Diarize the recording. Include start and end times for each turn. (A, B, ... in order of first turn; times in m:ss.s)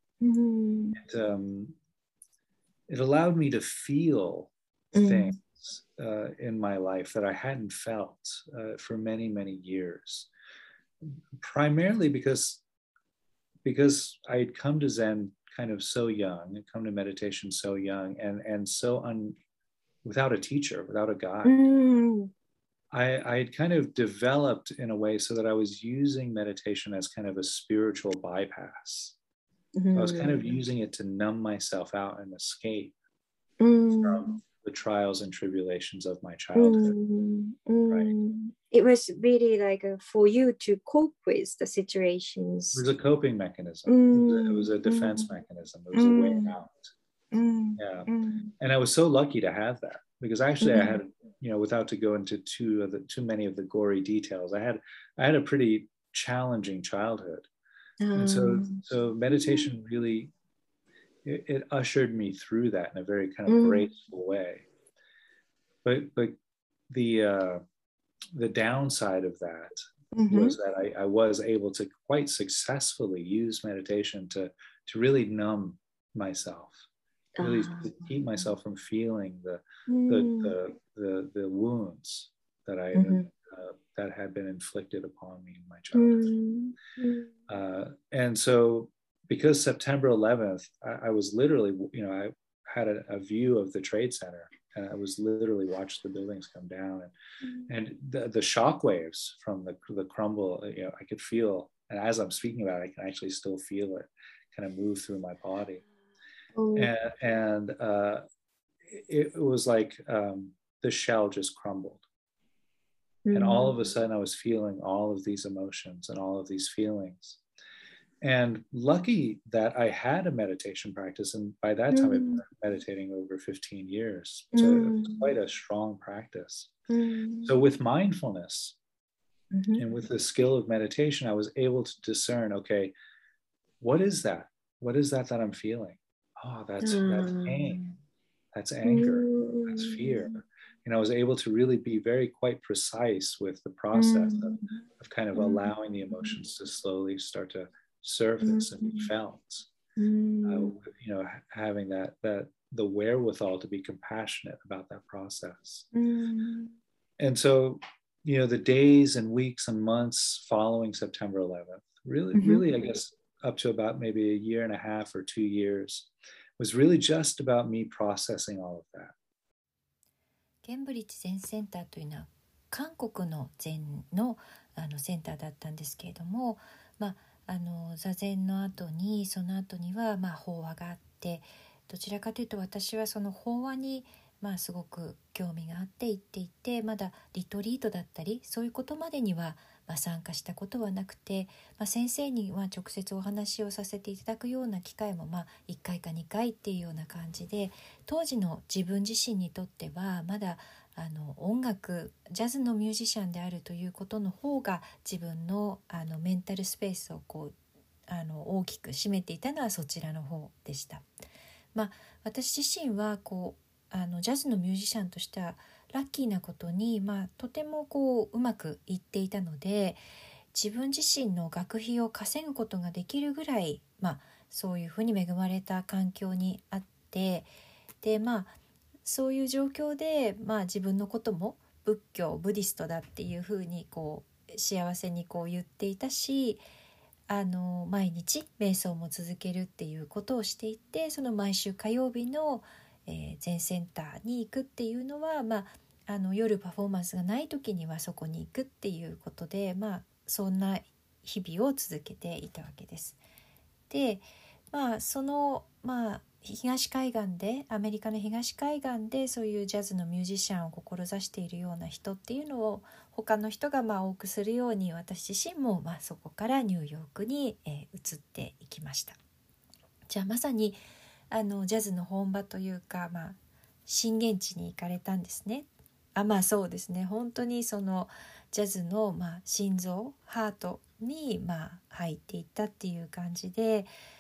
0:00.2-0:01.0 A
0:01.0-0:01.8 B
0:02.9-0:10.3 B
0:04.9-0:05.4 A
0:11.3-0:12.6 B
0:13.6-0:19.4 B
0:20.0-0:21.6 B
0:21.4-0:22.3 A
0:22.9-0:29.2 B
0:29.8-0:30.6 A
0:29.9-0:33.0 B
0:33.6-0:34.4 A
0:33.9-0:37.0 B
0:36.6-0:42.8 A
0:42.8-0:46.9 B
0:43.9-0:45.3 A
0:45.9-0:46.6 A
0:47.3-0:48.5 A
0:47.8-0:57.5 B
0:50.6-0:51.0 A
0:58.0-0:58.8 A
0:58.1-1:00.3 B
0:59.4-0:59.7 A
1:01.2-1:04.7 B
1:03.5-1:03.9 A
1:05.8-1:06.4 B
1:06.9-1:07.6 B
1:08.3-1:09.8 B
1:10.1-1:10.6 A
1:10.3-1:16.8 B
1:17.4-1:18.1 A
1:17.4-1:26.3 B
1:19.9-1:20.5 A
1:23.0-1:23.3 A
1:25.9-1:27.3 A
1:27.5-1:37.1 B
1:37.4-1:37.7 A
1:37.7-1:45.8 B
1:46.6-1:46.9 A
1:46.8-1:48.2 B
1:48.9-1:52.0 B
1:53.3-1:53.8 A
1:53.3-1:57.4 B
1:58.2-2:06.7 B
2:01.9-2:02.4 A
2:04.5-2:05.3 A
2:06.9-2:07.5 A
2:07.4-2:08.8 B
2:09.5-2:09.8 A
2:09.8-2:12.9 B
2:13.8-2:17.8 B
2:16.8-2:18.0 A
2:18.5-2:29.7 B
2:18.8-2:20.4 A
2:23.9-2:24.8 A
2:25.4-2:26.4 A
2:28.4-2:29.1 A
2:30.0-2:30.8 A
2:30.4-2:35.9 B
2:35.9-2:36.8 A
2:37.2-2:49.1 B
2:42.4-2:42.7 A
2:50.6-3:27.6 C
3:28.1-3:31.1 C
3:31.7-3:40.0 C
3:40.5-3:47.5 C
3:48.0-3:56.6 C
3:57.3-4:13.2 C
4:13.9-4:29.2 C
4:30.1-4:30.8 C
4:31.3-4:43.9 C